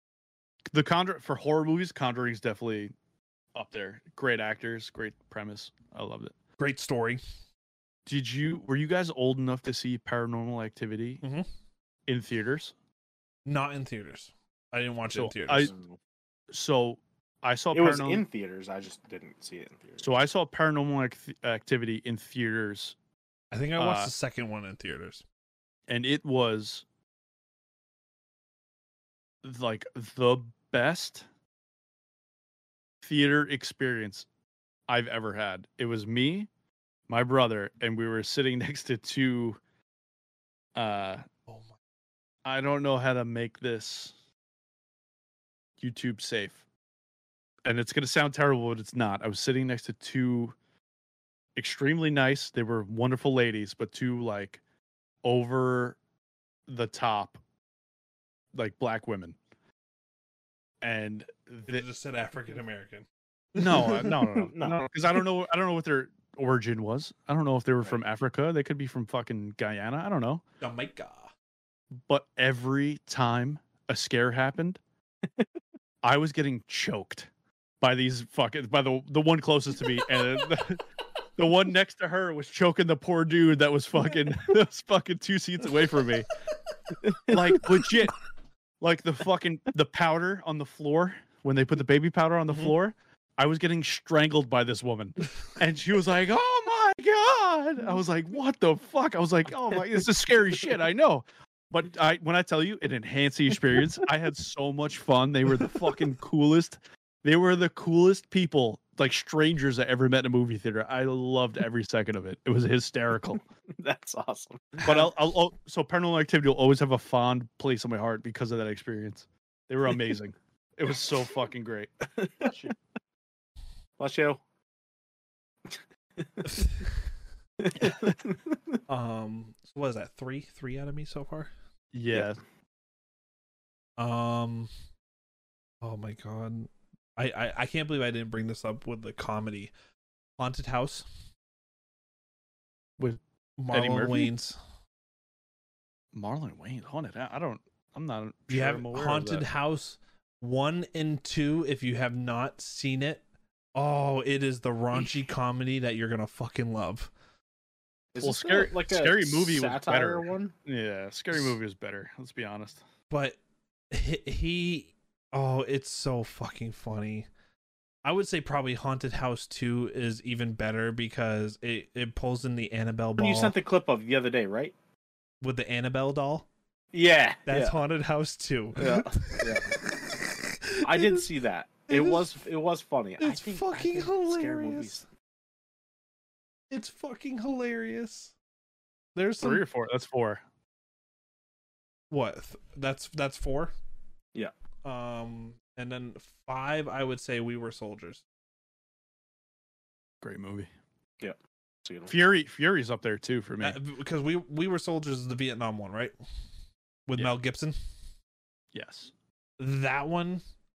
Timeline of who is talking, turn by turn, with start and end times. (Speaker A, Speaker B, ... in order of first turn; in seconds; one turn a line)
Speaker A: 0.7-2.9
Speaker A: 3.5-6.3
Speaker B: 6.6-7.2
Speaker A: 8.1-11.2
Speaker B: 11.2-11.5
Speaker A: 12.1-12.7
Speaker B: 13.4-15.7
Speaker A: 15.1-15.7
Speaker C: 15.6-16.0
Speaker A: 16.5-18.2
Speaker C: 17.7-20.1
Speaker A: 20.0-22.9
Speaker B: 23.5-25.2
Speaker A: 23.8-24.1
Speaker A: 25.9-26.8
Speaker A: 29.4-31.2
Speaker A: 33.0-34.3
Speaker A: 34.9-36.5
Speaker A: 37.1-39.6
Speaker A: 40.8-41.2
Speaker A: 42.5-44.1
Speaker A: 45.8-46.6
Speaker A: 47.6-50.5
Speaker A: 51.6-54.6
Speaker A: 55.2-56.0
Speaker A: 56.7-57.4
Speaker A: 58.5-59.4
Speaker A: 60.8-61.9
Speaker B: 61.7-64.1
Speaker A: 63.6-70.4
Speaker C: 64.4-64.9
Speaker B: 70.6-71.3
Speaker A: 72.1-74.8
Speaker A: 76.0-77.3
Speaker A: 77.8-80.8
Speaker A: 81.4-86.3
Speaker A: 87.3-88.2
Speaker A: 88.8-113.4
Speaker C: 113.8-115.1
Speaker A: 114.8-122.7
Speaker C: 122.2-122.5
Speaker C: 124.0-124.4
Speaker C: 126.2-126.7
Speaker B: 126.5-126.9
Speaker C: 127.6-128.5
Speaker B: 128.9-131.5
Speaker A: 131.9-132.4
Speaker B: 134.0-134.7
Speaker B: 135.8-139.7
Speaker B: 140.4-141.1
Speaker B: 143.6-144.6
Speaker A: 143.7-144.3
Speaker A: 146.1-149.5
Speaker B: 148.5-153.2
Speaker B: 153.8-157.1
Speaker C: 158.1-160.5
Speaker A: 158.2-162.8
Speaker B: 163.1-163.4
Speaker B: 163.9-167.3
Speaker B: 168.1-173.5
Speaker C: 173.2-174.7
Speaker B: 175.4-176.5
Speaker C: 176.9-177.8
Speaker B: 177.5-181.3
Speaker C: 178.8-179.7
Speaker C: 180.8-185.0
Speaker B: 181.9-182.3
Speaker B: 183.2-185.0
Speaker B: 186.7-188.3
Speaker B: 189.2-189.6
Speaker A: 189.4-190.4
Speaker B: 192.1-193.7
Speaker B: 194.8-198.2
Speaker A: 200.2-200.7
Speaker C: 201.2-202.1
Speaker A: 202.1-203.8
Speaker B: 203.6-206.1
Speaker B: 207.1-207.8
Speaker A: 208.7-209.1
Speaker B: 209.6-210.4